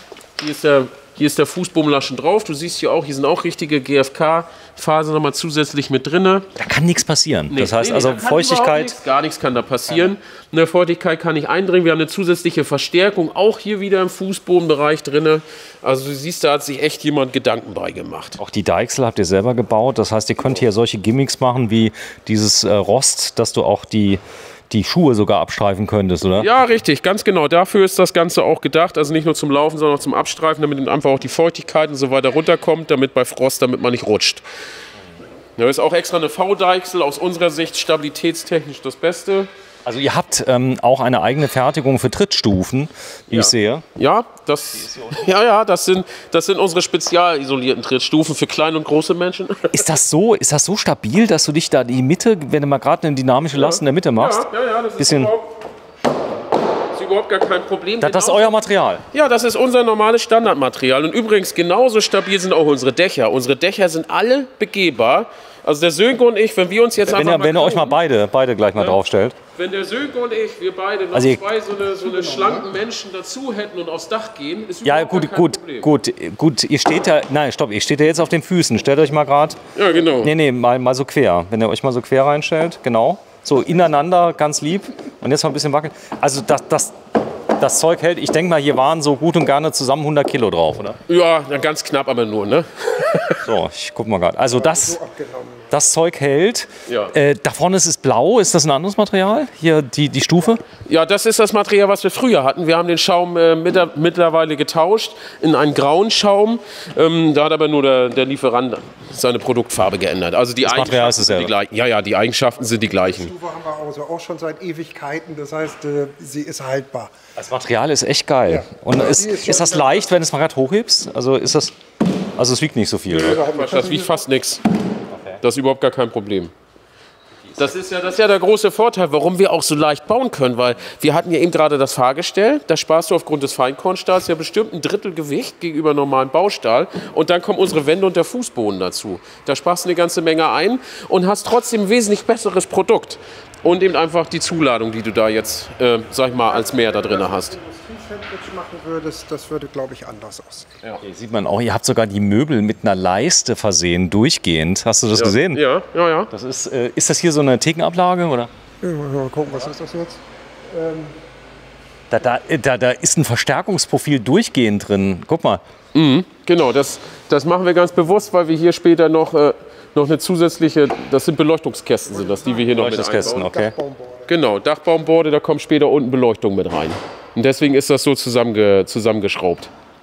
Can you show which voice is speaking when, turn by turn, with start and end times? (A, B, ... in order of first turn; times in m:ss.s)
0:00.4-0:06.5 A
0:06.6-0:09.0 B
0:07.5-0:18.4 A
0:18.4-0:26.5 B
0:26.4-0:34.4 A
0:35.6-0:39.5 A
0:39.8-0:43.8 B
0:43.3-0:49.8 A
0:44.8-0:45.2 B
0:49.7-0:54.4 B
0:53.5-0:55.5 A
0:55.0-0:55.3 B
0:56.9-0:58.6 A
0:58.0-0:59.0 B
0:59.1-1:08.0 A
1:07.1-1:09.4 B
1:09.6-1:15.9 A
1:11.1-1:11.4 B
1:12.0-1:12.6 C
1:14.8-1:19.6 B
1:19.7-1:20.3 A
1:20.2-1:27.0 B
1:27.5-1:31.0 B
1:31.1-1:33.4 A
1:33.4-1:35.0 B
1:34.5-1:35.7 C
1:35.7-1:40.6 B
1:36.9-1:37.1 A
1:40.8-1:53.3 A
1:50.6-1:51.5 B
1:52.8-1:57.1 C
1:57.4-2:01.7 B
1:58.4-2:00.0 C
2:02.4-2:03.4 B
2:03.1-2:04.6 A
2:03.2-2:04.2 C
2:05.1-2:05.4 B
2:05.4-2:06.5 A
2:07.6-2:27.5 A
2:26.4-2:30.7 C
2:31.0-2:35.6 B
2:35.2-2:36.3 A
2:36.3-2:38.5 B
2:38.8-2:41.2 C
2:42.1-2:45.6 B
2:45.9-2:53.5 A
2:52.1-2:54.3 C
2:52.7-2:53.7 B
2:54.3-2:59.7 A